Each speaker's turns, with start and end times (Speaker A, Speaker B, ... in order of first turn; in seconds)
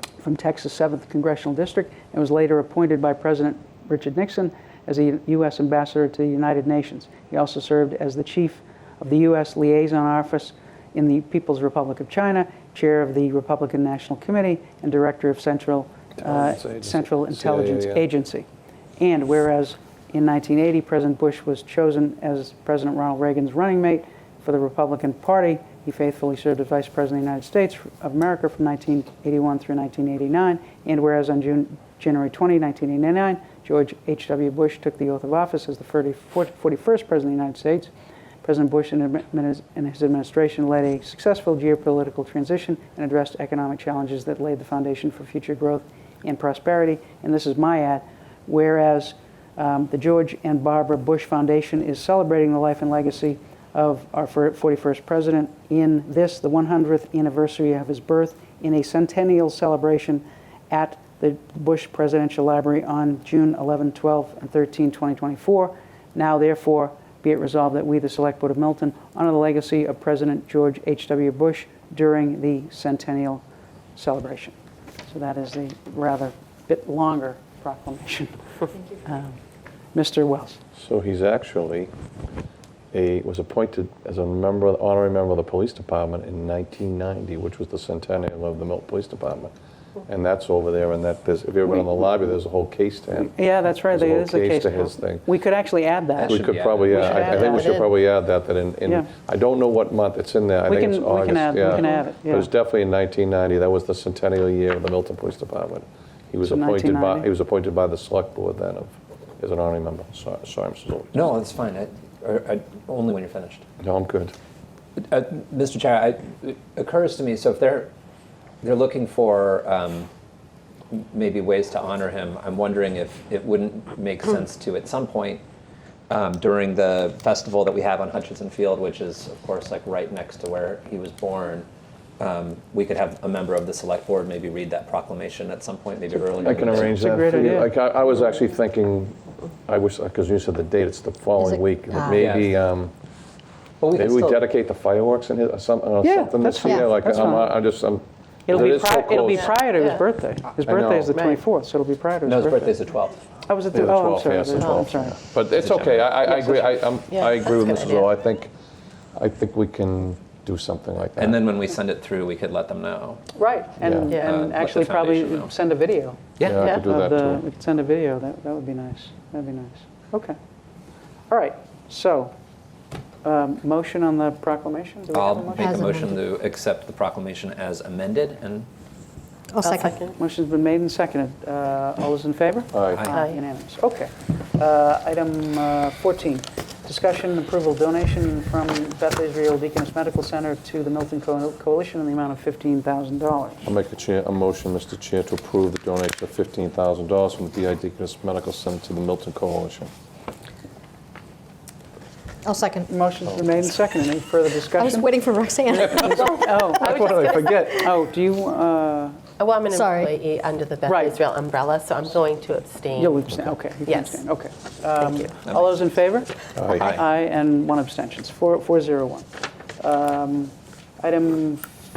Speaker A: 0.2-18.5, 19.0-37.9, 38.4-73.4, 73.9-74.5, 75.1-78.3, 78.9-79.4, 79.9-80.6, 93.3-97.8, 100.7-102.5, 106.4-107.3, 136.6-137.7, 146.0-147.5, 148.5-152.8, 153.4-155.2, 163.3-170.3, 171.3-172.3, 173.2-176.1, 180.1-193.7, 202.9-205.1, 205.7-209.2, 210.8-211.2, 212.9-219.3, 219.8-221.6
Speaker B: 16.2-18.0, 80.7-81.9, 82.9-89.5, 90.0-93.3, 93.9-95.2, 96.2-111.2, 113.8-114.3, 136.4-142.9, 143.9-149.5, 150.6-151.1, 153.7-158.5, 159.2-161.4, 163.8-164.1, 166.4-167.4, 182.7-183.1, 193.7-199.9, 206.8-207.8, 216.6-216.9
Speaker C: 96.2-97.4, 111.1-113.6, 115.0-117.9, 118.6-120.1, 120.9-125.4, 126.1-131.7, 132.2-137.0, 142.1-142.6, 143.8-144.4, 152.2-153.2, 155.6-156.4, 161.2-163.3, 164.1-165.5, 166.4-166.6, 175.1-178.7, 182.9-183.2, 215.5-215.7, 216.7-217.0
Speaker D: 97.0-97.9, 149.3-150.0, 151.1-151.4, 157.1-158.1, 166.5-166.8, 179.6-180.2, 183.1-183.4, 207.1-207.6, 209.4-213.3, 213.8-214.2, 215.0-215.3
Speaker E: 141.4-142.2, 175.5-176.1, 179.5-179.9, 202.4-202.9, 204.7-207.1, 209.7-210.1